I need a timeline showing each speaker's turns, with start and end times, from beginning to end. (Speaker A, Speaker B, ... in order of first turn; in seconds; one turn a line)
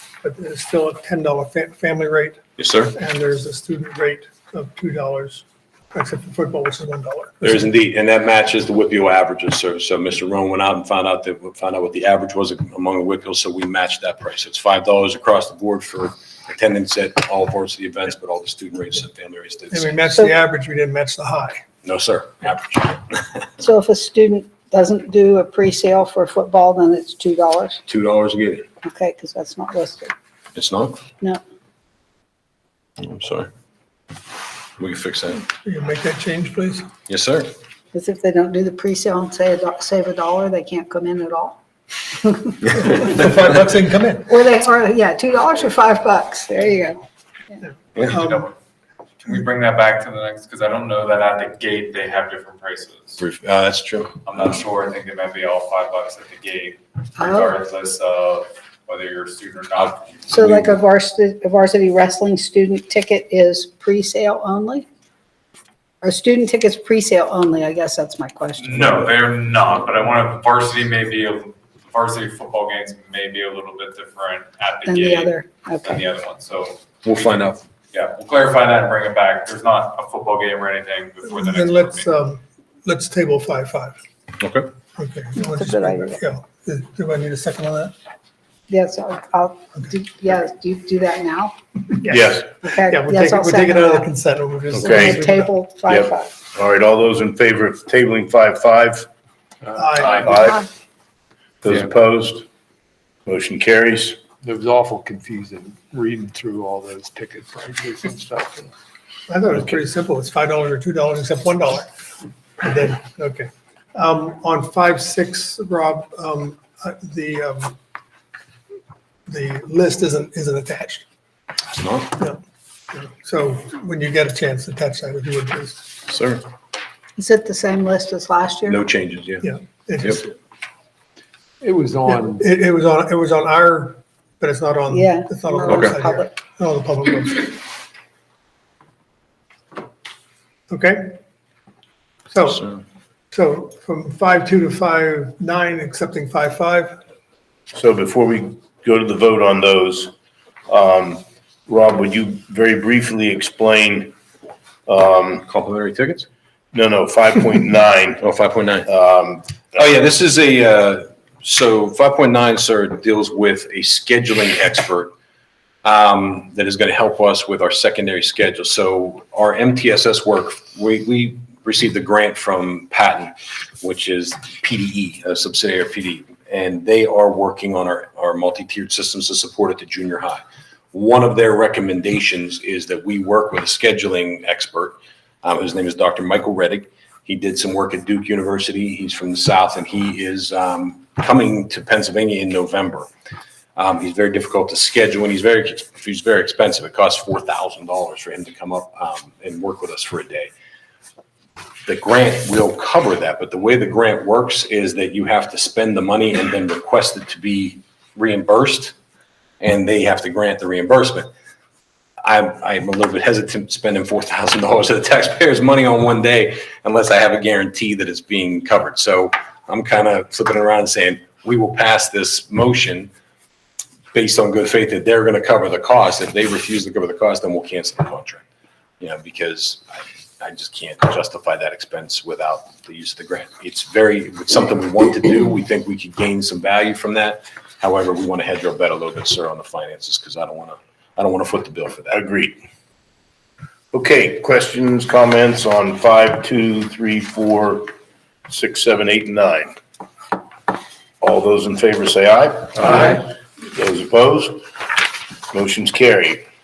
Speaker A: 0.2-2.4
Speaker B: 2.6-2.9
Speaker A: 2.9-7.5
Speaker B: 7.4-19.9
Speaker A: 19.7-21.6
Speaker B: 21.8-23.3
Speaker C: 23.6-27.8
Speaker B: 27.9-28.6
Speaker C: 28.8-30.1
Speaker B: 30.6-31.0
Speaker B: 33.0-33.5
Speaker B: 34.8-35.5
Speaker A: 35.5-36.9
Speaker B: 37.1-37.5
Speaker C: 37.9-43.0
Speaker A: 42.8-44.4
Speaker C: 44.3-47.6
Speaker A: 47.6-48.5
Speaker D: 48.0-48.5
Speaker D: 49.2-53.2
Speaker B: 53.2-54.2
Speaker D: 54.2-60.4
Speaker C: 57.2-57.6
Speaker C: 60.3-64.9
Speaker C: 66.0-68.8
Speaker D: 68.6-76.8
Speaker C: 74.9-76.0
Speaker B: 77.0-77.6
Speaker D: 77.9-82.1
Speaker A: 81.3-84.0
Speaker B: 84.4-84.7
Speaker A: 85.0-87.9
Speaker C: 85.4-86.2
Speaker C: 88.7-91.5
Speaker A: 92.0-95.5
Speaker E: 92.1-92.5
Speaker C: 92.6-94.1
Speaker C: 94.8-96.3
Speaker E: 94.8-95.2
Speaker E: 95.9-99.1
Speaker A: 99.7-100.2
Speaker F: 99.8-100.5
Speaker E: 100.0-100.7
Speaker E: 101.6-102.5
Speaker E: 103.3-104.2
Speaker F: 104.4-108.7
Speaker A: 109.3-111.9
Speaker A: 112.6-117.8
Speaker A: 119.3-121.1
Speaker B: 121.7-122.2
Speaker A: 122.9-125.9
Speaker B: 126.1-126.5
Speaker C: 127.2-128.8
Speaker B: 128.7-129.5
Speaker A: 129.4-130.3
Speaker F: 131.6-132.4
Speaker A: 132.1-137.6
Speaker C: 134.9-136.3
Speaker B: 135.7-135.9
Speaker A: 140.7-141.2
Speaker A: 142.3-142.7
Speaker A: 143.3-147.0
Speaker E: 147.7-150.1
Speaker E: 150.7-154.1
Speaker E: 154.9-155.5
Speaker B: 155.5-156.3
Speaker E: 156.7-158.2
Speaker B: 158.2-158.9
Speaker E: 158.9-159.6
Speaker B: 159.8-165.1
Speaker B: 165.8-180.4
Speaker B: 180.9-193.1
Speaker B: 193.8-200.5
Speaker B: 201.9-208.9
Speaker B: 209.6-211.3
Speaker B: 212.2-223.1
Speaker B: 224.1-228.4
Speaker B: 229.0-242.2
Speaker E: 242.1-242.6
Speaker E: 243.9-247.9
Speaker E: 248.5-249.7
Speaker E: 251.2-254.7
Speaker E: 255.5-256.4